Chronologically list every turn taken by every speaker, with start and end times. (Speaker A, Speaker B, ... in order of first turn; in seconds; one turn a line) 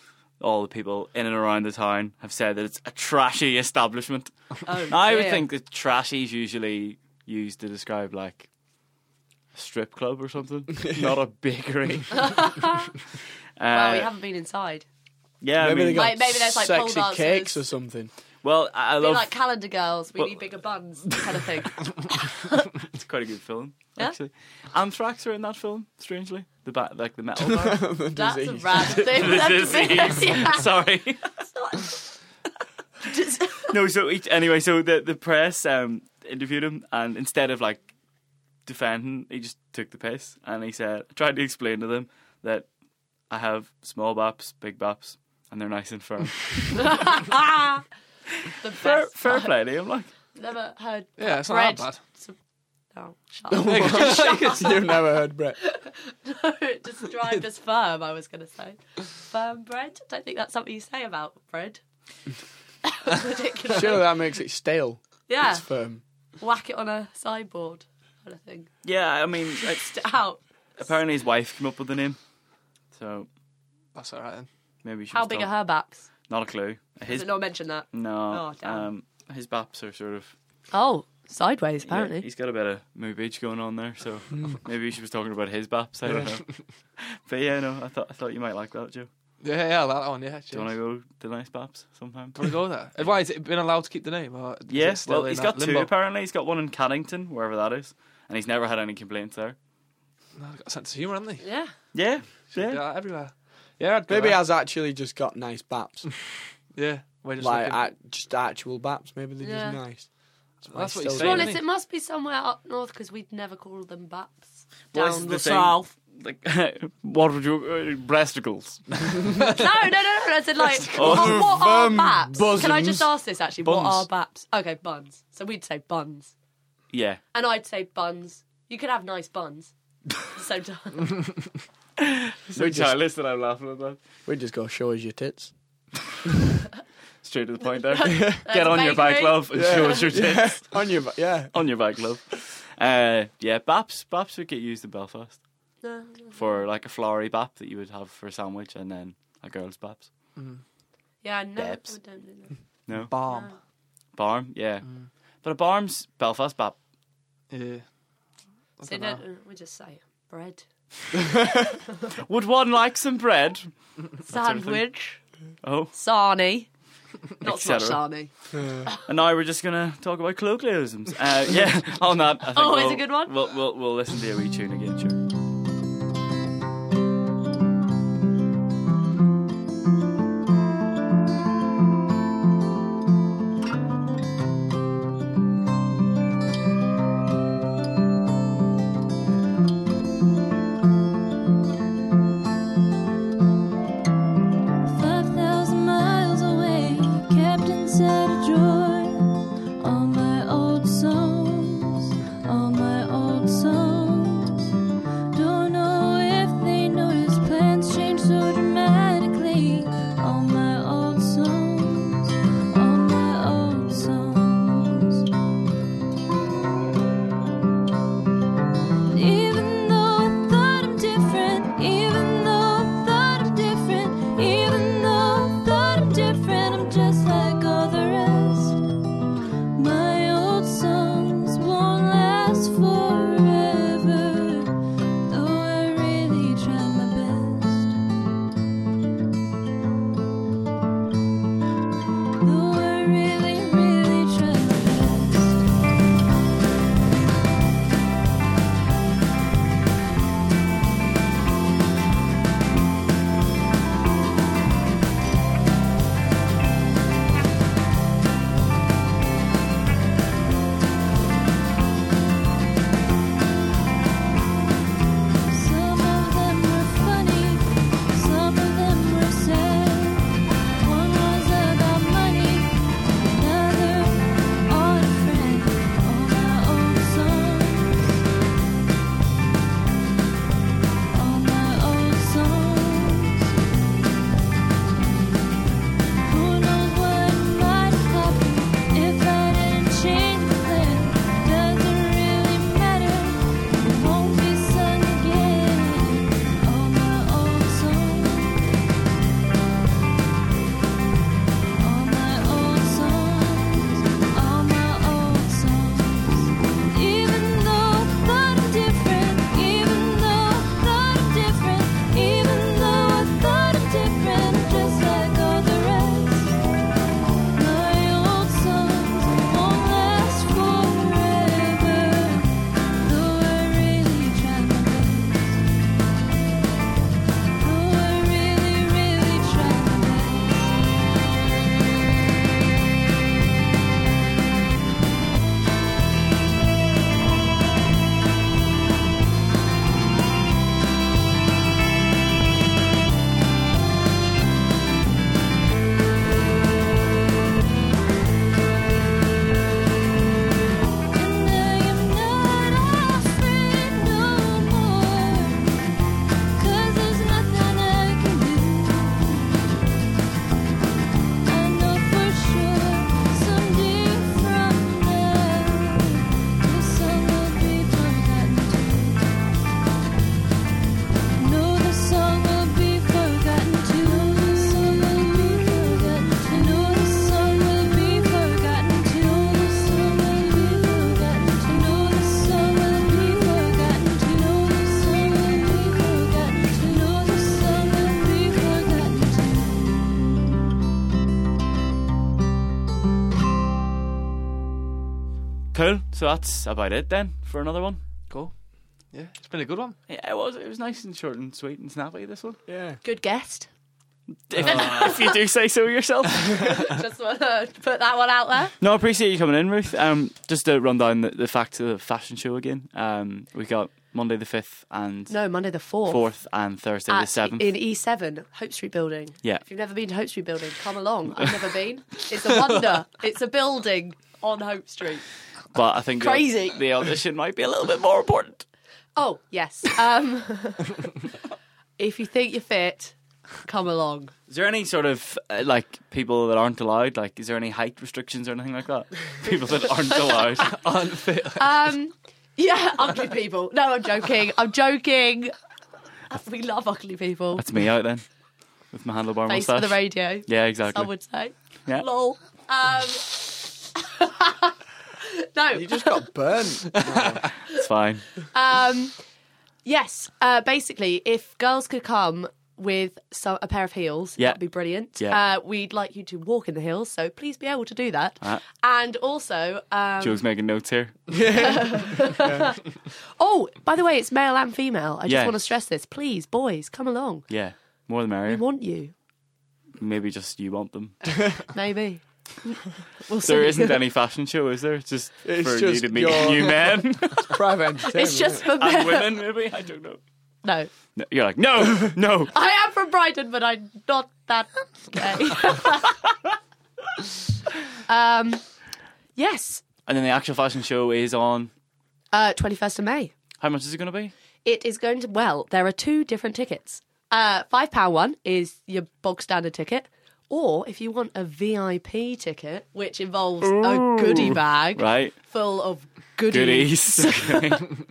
Speaker A: 0.4-4.4
Speaker B: 4.7-5.5
Speaker A: 4.9-8.5
Speaker A: 9.5-12.6
Speaker C: 10.9-11.2
Speaker B: 12.1-12.9
Speaker A: 13.6-14.1
Speaker B: 13.7-14.8
Speaker A: 15.4-16.1
Speaker C: 15.6-18.1
Speaker B: 15.9-17.6
Speaker A: 18.4-19.3
Speaker B: 19.0-22.5
Speaker A: 22.9-27.9
Speaker C: 27.4-29.5
Speaker B: 28.1-30.7
Speaker A: 28.8-31.3
Speaker B: 31.4-32.1
Speaker B: 33.0-33.7
Speaker A: 33.7-37.9
Speaker A: 38.7-42.7
Speaker A: 43.3-47.2
Speaker B: 46.8-47.8
Speaker B: 48.6-49.5
Speaker A: 48.8-50.1
Speaker B: 50.4-52.3
Speaker D: 51.2-52.0
Speaker B: 52.9-55.0
Speaker D: 53.5-54.8
Speaker C: 53.7-55.6
Speaker B: 55.6-61.8
Speaker B: 62.9-64.1
Speaker C: 63.7-66.0
Speaker B: 65.3-65.7
Speaker B: 66.4-68.7
Speaker A: 68.8-70.0
Speaker B: 69.6-70.9
Speaker A: 70.8-72.2
Speaker A: 72.9-73.3
Speaker D: 74.0-74.5
Speaker A: 74.8-75.5
Speaker B: 75.1-76.1
Speaker A: 76.3-80.3
Speaker B: 77.0-78.9
Speaker B: 80.7-82.3
Speaker A: 81.9-89.1
Speaker D: 89.4-90.7
Speaker A: 90.5-93.2
Speaker D: 92.3-95.9
Speaker A: 94.7-99.6
Speaker D: 100.4-101.5
Speaker B: 101.4-101.7
Speaker A: 101.9-102.8
Speaker D: 102.5-104.4
Speaker C: 104.1-106.1
Speaker D: 106.7-107.9
Speaker C: 107.4-110.1
Speaker B: 109.4-109.8
Speaker C: 110.6-111.5
Speaker D: 110.7-111.6
Speaker B: 111.2-115.9
Speaker A: 114.9-119.3
Speaker B: 119.4-126.3
Speaker A: 120.8-121.7
Speaker C: 121.0-123.1
Speaker D: 123.7-124.0
Speaker A: 126.9-127.2
Speaker B: 127.3-129.7
Speaker B: 130.3-131.2
Speaker A: 132.0-134.0
Speaker C: 132.6-132.9
Speaker C: 134.3-135.5
Speaker A: 137.2-140.8
Speaker B: 137.8-140.0
Speaker C: 138.1-138.4
Speaker C: 139.5-141.5
Speaker A: 141.5-145.4
Speaker B: 145.8-146.6
Speaker A: 146.3-150.1
Speaker D: 150.4-150.6
Speaker B: 151.2-152.6
Speaker A: 151.6-152.0
Speaker A: 152.9-153.1
Speaker D: 153.0-153.6
Speaker B: 153.2-153.6
Speaker A: 154.2-154.9
Speaker D: 154.8-155.1
Speaker A: 155.4-156.8
Speaker D: 157.5-157.9
Speaker D: 158.8-159.2
Speaker B: 158.8-160.7
Speaker A: 162.1-164.9
Speaker B: 164.3-165.2
Speaker A: 165.6-165.9
Speaker B: 165.9-166.7
Speaker B: 167.4-168.3
Speaker A: 167.4-168.1
Speaker C: 168.5-168.8
Speaker A: 169.1-175.2
Speaker B: 172.5-173.3
Speaker E: 194.8-204.7
Speaker E: 205.3-215.3
Speaker E: 219.1-228.8
Speaker E: 229.8-238.0
Speaker E: 242.4-245.7
Speaker E: 265.4-278.2
Speaker E: 281.1-283.5
Speaker E: 286.2-298.6
Speaker E: 301.8-316.6
Speaker E: 317.5-325.6
Speaker E: 327.6-330.8
Speaker E: 351.1-355.7
Speaker E: 356.6-359.5
Speaker E: 361.4-369.3
Speaker E: 371.4-390.0
Speaker A: 395.7-398.0
Speaker D: 398.3-400.0
Speaker A: 400.1-402.6
Speaker C: 402.7-403.0
Speaker B: 403.0-403.7
Speaker A: 404.5-406.8
Speaker D: 404.6-404.9
Speaker B: 404.7-405.4
Speaker B: 406.6-408.8
Speaker A: 408.8-417.7
Speaker B: 415.3-416.3
Speaker B: 417.1-425.3
Speaker A: 425.7-428.7
Speaker B: 426.2-426.8
Speaker B: 429.2-431.1
Speaker B: 432.0-434.3
Speaker A: 434.5-440.8
Speaker D: 440.7-441.8
Speaker B: 441.6-445.5
Speaker B: 446.3-447.6
Speaker A: 447.6-448.3
Speaker A: 448.9-451.1
Speaker B: 449.5-456.3
Speaker C: 455.7-457.5
Speaker D: 456.9-457.6
Speaker A: 457.7-458.3
Speaker B: 458.5-459.2
Speaker B: 459.9-470.4
Speaker A: 465.1-465.4
Speaker A: 470.2-471.3
Speaker C: 471.3-472.7
Speaker B: 471.6-477.5
Speaker A: 475.3-475.6
Speaker A: 477.5-478.6
Speaker B: 478.5-479.1
Speaker A: 480.0-481.2
Speaker B: 481.7-484.0
Speaker A: 483.4-487.6
Speaker C: 485.4-488.7
Speaker B: 488.0-489.4
Speaker A: 488.8-490.2
Speaker B: 490.6-490.9
Speaker A: 491.2-492.5
Speaker B: 492.5-496.2
Speaker B: 498.1-498.6
Speaker B: 499.4-499.9
Speaker A: 500.1-501.7
Speaker B: 502.3-503.3
Speaker A: 503.6-504.3
Speaker B: 504.6-517.9
Speaker A: 513.6-515.4
Speaker A: 516.5-518.0